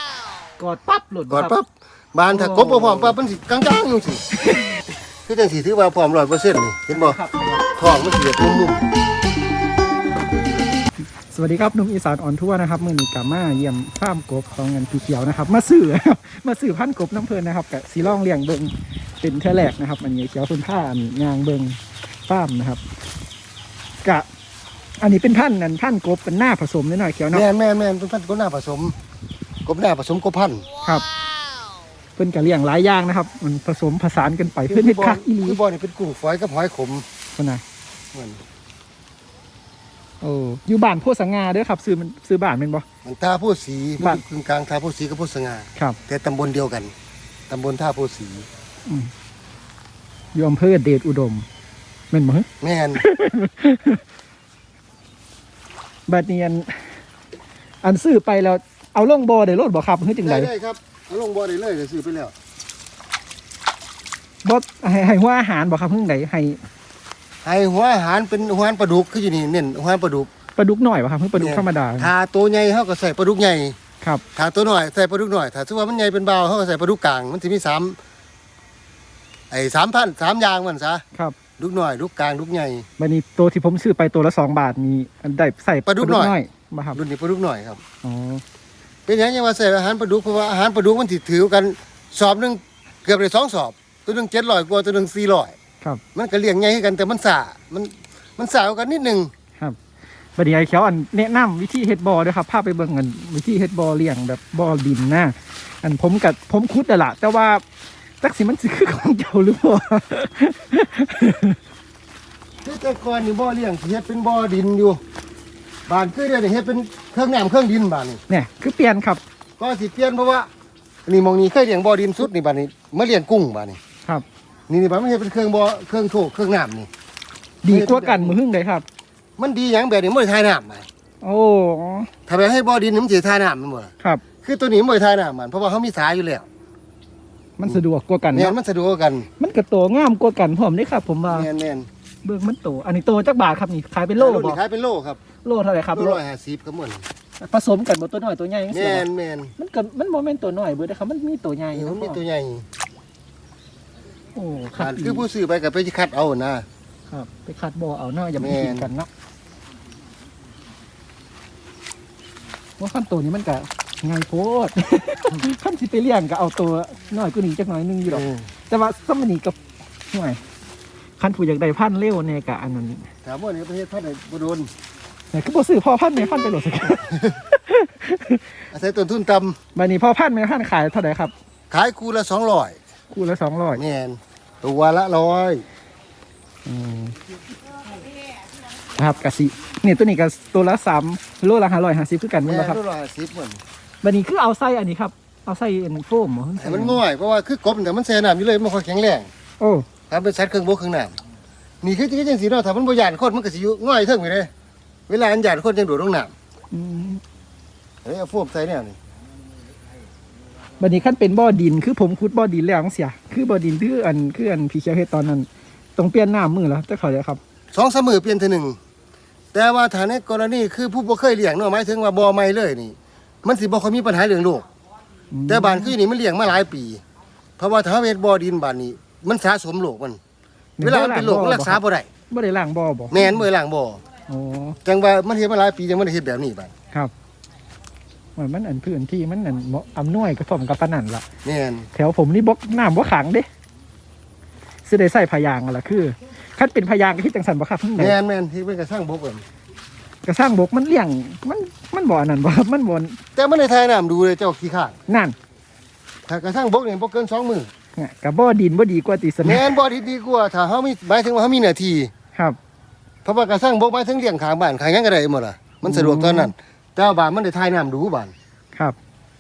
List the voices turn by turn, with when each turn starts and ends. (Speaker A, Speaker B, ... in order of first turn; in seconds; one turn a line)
Speaker A: 0.6-1.5
Speaker B: 1.3-4.2
Speaker A: 2.3-3.2
Speaker A: 4.4-4.7
Speaker B: 5.3-7.2
Speaker A: 6.9-7.7
Speaker B: 7.8-8.8
Speaker A: 11.3-22.8
Speaker A: 25.0-27.5
Speaker B: 27.3-28.9
Speaker B: 29.7-30.7
Speaker A: 32.2-35.6
Speaker B: 34.7-37.1
Speaker A: 37.4-37.6
Speaker B: 38.1-38.4
Speaker A: 40.2-42.9
Speaker B: 43.0-46.9
Speaker B: 47.5-48.5
Speaker A: 48.9-49.1
Speaker A: 50.3-51.5
Speaker A: 52.1-54.0
Speaker B: 52.6-53.0
Speaker A: 56.1-56.9
Speaker A: 57.8-60.5
Speaker B: 60.2-62.3
Speaker A: 64.4-66.6
Speaker B: 67.5-70.3
Speaker A: 70.6-72.1
Speaker B: 71.4-73.8
Speaker B: 74.3-78.0
Speaker B: 79.5-81.0
Speaker B: 81.6-82.9
Speaker A: 83.0-87.0
Speaker B: 85.9-86.3
Speaker B: 86.9-87.8
Speaker A: 88.0-88.4
Speaker B: 89.1-95.5
Speaker B: 96.1-99.3
Speaker A: 100.4-107.6
Speaker A: 108.2-111.6
Speaker B: 112.6-115.0
Speaker B: 115.9-118.2
Speaker A: 118.3-119.2
Speaker B: 119.6-120.5
Speaker B: 121.1-123.8
Speaker B: 124.7-126.9
Speaker A: 127.6-128.8
Speaker B: 127.7-128.4
Speaker B: 129.4-130.9
Speaker A: 131.2-132.1
Speaker B: 132.3-136.5
Speaker A: 137.6-138.6
Speaker B: 138.3-139.3
Speaker A: 139.4-141.5
Speaker B: 141.3-141.9
Speaker A: 142.2-144.6
Speaker B: 144.2-145.2
Speaker A: 145.4-146.2
Speaker B: 145.9-147.1
Speaker A: 147.4-149.1
Speaker B: 148.7-149.5
Speaker A: 149.6-152.2
Speaker B: 151.7-152.7
Speaker A: 154.3-155.2
Speaker B: 154.8-156.7
Speaker A: 157.1-159.1
Speaker B: 158.4-158.9
Speaker A: 162.8-169.6
Speaker B: 168.1-168.5
Speaker A: 170.1-170.4
Speaker A: 171.2-173.1
Speaker B: 173.2-174.7
Speaker A: 175.3-178.5
Speaker B: 178.7-179.6
Speaker A: 179.8-181.3
Speaker B: 181.7-182.8
Speaker A: 183.1-183.8
Speaker B: 183.8-185.7
Speaker A: 186.7-187.2
Speaker A: 189.0-192.8
Speaker B: 192.4-193.6
Speaker A: 194.0-197.0
Speaker B: 196.6-199.3
Speaker A: 199.6-199.9
Speaker B: 200.1-201.2
Speaker B: 201.8-204.5
Speaker B: 205.1-206.3
Speaker A: 206.7-207.2
Speaker B: 208.1-209.0
Speaker A: 210.8-217.4
Speaker B: 217.7-218.8
Speaker B: 219.5-224.7
Speaker A: 225.3-225.9
Speaker B: 225.5-227.0
Speaker B: 227.6-230.2
Speaker A: 230.8-233.4
Speaker B: 230.8-232.1
Speaker B: 233.1-234.0
Speaker A: 234.3-234.8
Speaker B: 234.8-236.7
Speaker A: 238.4-241.2
Speaker B: 241.4-241.9
Speaker A: 241.9-243.5
Speaker A: 244.9-248.2
Speaker B: 248.0-249.4
Speaker A: 250.2-253.2
Speaker B: 253.4-254.9
Speaker A: 255.1-255.3
Speaker B: 256.3-257.7
Speaker A: 258.0-259.7
Speaker B: 259.4-262.1
Speaker B: 263.2-268.3
Speaker A: 265.9-266.5